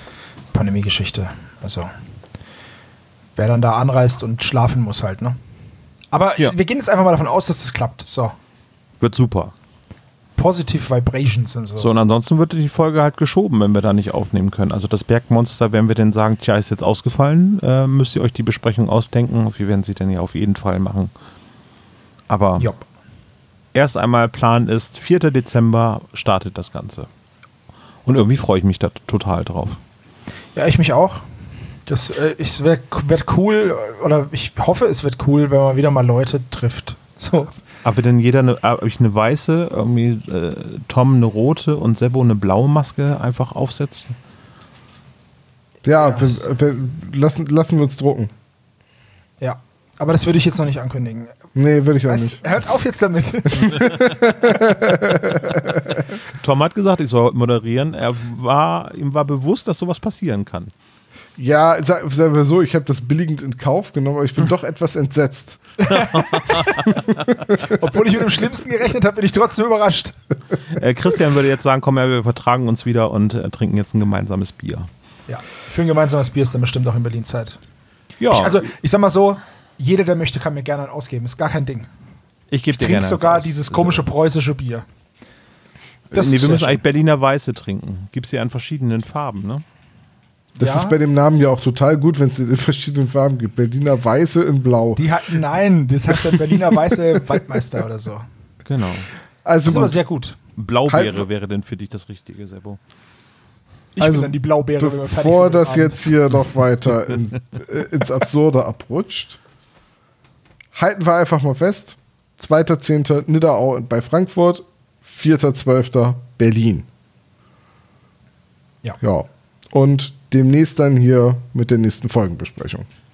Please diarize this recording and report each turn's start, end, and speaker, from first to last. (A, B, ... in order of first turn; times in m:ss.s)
0:00.5-0:01.9 A
0:03.4-0:05.4 A
0:06.1-0:08.4 A
0:09.0-0:09.5 B
0:10.4-0:11.9 A
0:11.8-0:21.1 B
0:22.3-0:22.7 B
0:22.6-0:22.9 A
0:23.7-0:27.1 B
0:28.0-0:29.8 B
0:30.6-0:31.3 A
0:31.9-0:37.6 A
0:37.8-0:44.2 B
0:45.8-0:48.3 C
0:46.0-0:46.4 A
0:49.4-0:51.4 A
0:51.6-0:52.4 C
0:52.1-0:54.1 A
0:53.6-0:56.1 C
0:56.3-1:00.7 B
1:01.4-1:05.9 C
1:05.8-1:06.3 A
1:06.0-1:07.2 B
1:07.0-1:07.6 C
1:07.7-1:10.2 A
1:10.7-1:14.9 B
1:15.3-1:17.6 A
1:18.2-1:18.7 B
1:18.3-1:21.9 A
1:22.5-1:24.1 B
1:22.7-1:24.9 A
1:26.1-1:29.6 B
1:26.1-1:26.8 A
1:30.6-1:31.0 A
1:30.6-1:35.0 C
1:35.0-1:38.3 A
1:36.3-1:36.6 C
1:38.6-1:39.1 B
1:39.4-1:40.0 C
1:39.7-1:40.4 A
1:40.6-1:42.8 B
1:40.9-1:41.3 C
1:44.0-1:46.1 A
1:44.0-1:49.4 C
1:50.7-1:56.9 C
1:59.0-2:02.9 C